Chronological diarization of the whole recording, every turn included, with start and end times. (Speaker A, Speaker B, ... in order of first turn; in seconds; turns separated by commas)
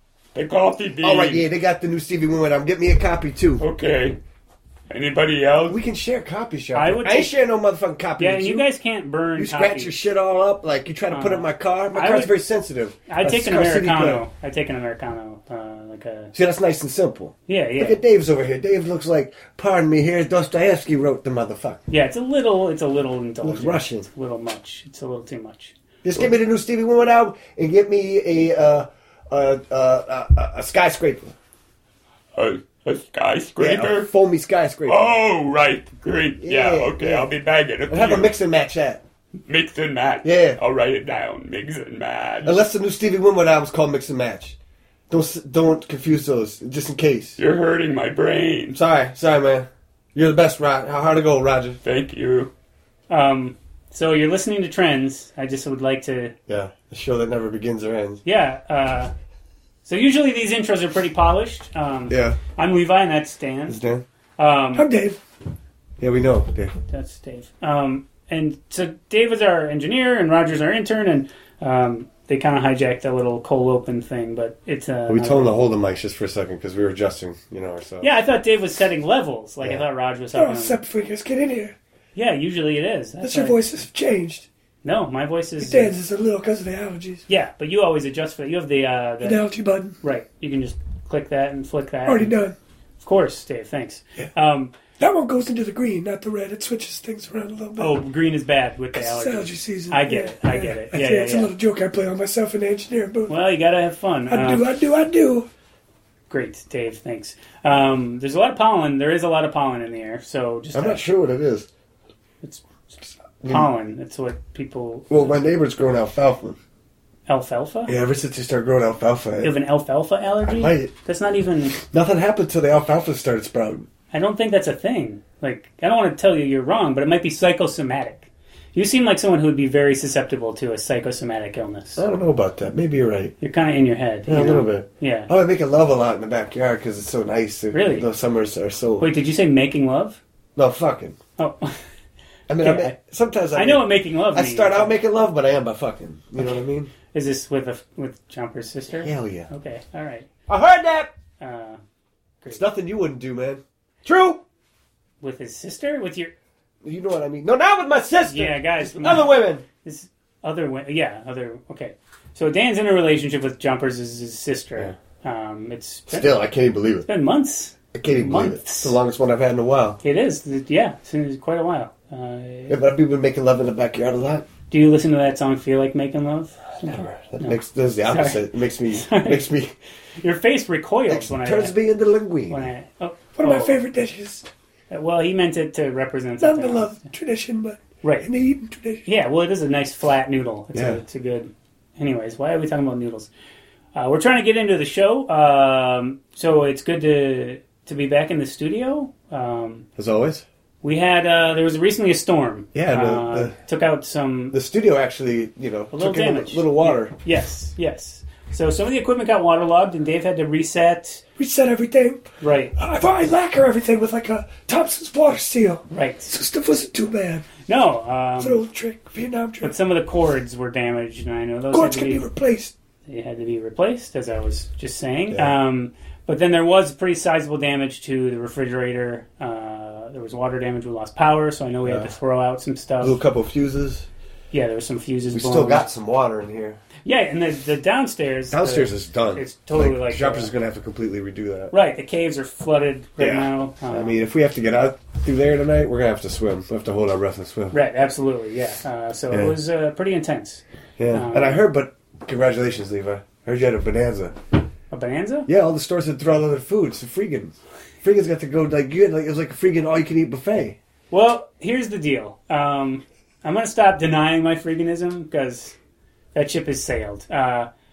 Speaker A: 0.3-1.4, Speaker B: 1.0-3.6, Speaker A: 3.6-4.2, Speaker A: 4.9-5.8, Speaker B: 5.7-8.7, Speaker C: 6.7-7.4, Speaker C: 8.2-9.9, Speaker B: 9.3-14.2, Speaker C: 11.1-12.3, Speaker C: 13.1-16.3, Speaker B: 16.3-21.8, Speaker C: 17.5-18.0, Speaker C: 21.9-25.7, Speaker B: 23.4-24.1, Speaker B: 26.0-31.3, Speaker A: 32.3-34.1, Speaker B: 33.6-35.1, Speaker A: 34.9-38.4, Speaker B: 36.4-37.3, Speaker B: 37.9-39.0, Speaker A: 39.5-42.6, Speaker B: 40.2-40.6, Speaker B: 42.4-44.6, Speaker B: 45.1-47.4, Speaker A: 47.4-48.8, Speaker B: 48.7-51.8, Speaker A: 51.8-52.5, Speaker C: 53.1-56.3, Speaker B: 56.5-58.2, Speaker C: 58.2-59.1, Speaker C: 59.8-63.8, Speaker B: 62.1-62.4, Speaker B: 63.7-64.0, Speaker C: 64.4-64.9, Speaker D: 64.7-65.2, Speaker B: 66.0-66.7, Speaker C: 66.9-75.6, Speaker B: 75.1-78.1, Speaker C: 78.0-80.8, Speaker D: 80.3-81.7, Speaker C: 82.2-83.6, Speaker D: 83.2-84.5, Speaker C: 84.8-86.0, Speaker D: 85.6-87.2, Speaker C: 87.3-89.5, Speaker D: 89.2-90.0, Speaker C: 90.0-92.3, Speaker D: 92.0-92.5, Speaker C: 93.0-94.7, Speaker D: 95.0-98.0, Speaker C: 97.8-101.5, Speaker D: 98.9-103.3, Speaker C: 103.3-104.7, Speaker D: 104.3-105.5, Speaker C: 106.3-111.0, Speaker B: 110.7-111.7, Speaker C: 112.4-115.4, Speaker B: 113.4-113.7, Speaker B: 115.1-116.6, Speaker C: 117.3-117.9, Speaker B: 117.8-119.5, Speaker C: 119.4-121.8, Speaker B: 120.4-120.9, Speaker B: 121.8-123.9, Speaker C: 124.1-132.0, Speaker B: 132.0-133.3, Speaker C: 133.4-135.3, Speaker B: 134.2-139.1, Speaker C: 137.7-138.1, Speaker C: 139.0-140.2, Speaker B: 140.6-141.2, Speaker C: 141.4-141.8, Speaker B: 142.5-146.9, Speaker C: 142.6-142.9, Speaker C: 143.5-145.0, Speaker C: 146.4-150.3, Speaker B: 149.0-149.5, Speaker B: 150.5-151.1, Speaker C: 151.4-151.8, Speaker B: 152.5-154.4, Speaker C: 155.2-156.3, Speaker B: 156.8-159.6, Speaker C: 158.2-166.4, Speaker B: 166.1-167.1, Speaker C: 167.0-169.0, Speaker B: 167.9-170.0, Speaker C: 170.0-172.8, Speaker B: 172.7-174.4, Speaker C: 174.7-179.4, Speaker B: 176.8-179.7, Speaker C: 180.2-181.8, Speaker B: 181.1-182.7, Speaker C: 182.5-183.9, Speaker D: 183.4-184.5, Speaker C: 184.9-187.1, Speaker D: 186.4-189.0, Speaker C: 188.0-188.3, Speaker C: 189.1-193.3, Speaker B: 190.7-191.0, Speaker C: 193.9-199.9, Speaker B: 200.0-200.4, Speaker C: 200.8-204.6, Speaker B: 202.7-203.6, Speaker B: 204.5-207.1, Speaker C: 205.9-211.2, Speaker D: 211.4-212.2, Speaker C: 212.4-212.8, Speaker D: 212.8-217.6, Speaker C: 215.9-216.3, Speaker C: 217.6-218.6, Speaker D: 218.4-219.8, Speaker C: 219.6-222.3, Speaker D: 221.7-222.7, Speaker C: 223.1-233.2, Speaker B: 231.8-232.1, Speaker B: 233.0-234.1, Speaker C: 234.5-235.8, Speaker B: 235.3-236.8, Speaker C: 237.0-240.5, Speaker B: 238.5-241.7, Speaker C: 241.7-244.1, Speaker B: 243.2-247.8, Speaker C: 247.7-251.6, Speaker B: 249.3-249.6, Speaker B: 251.0-254.4, Speaker C: 254.9-255.5, Speaker B: 255.4-260.8, Speaker C: 261.1-265.8, Speaker C: 266.3-267.7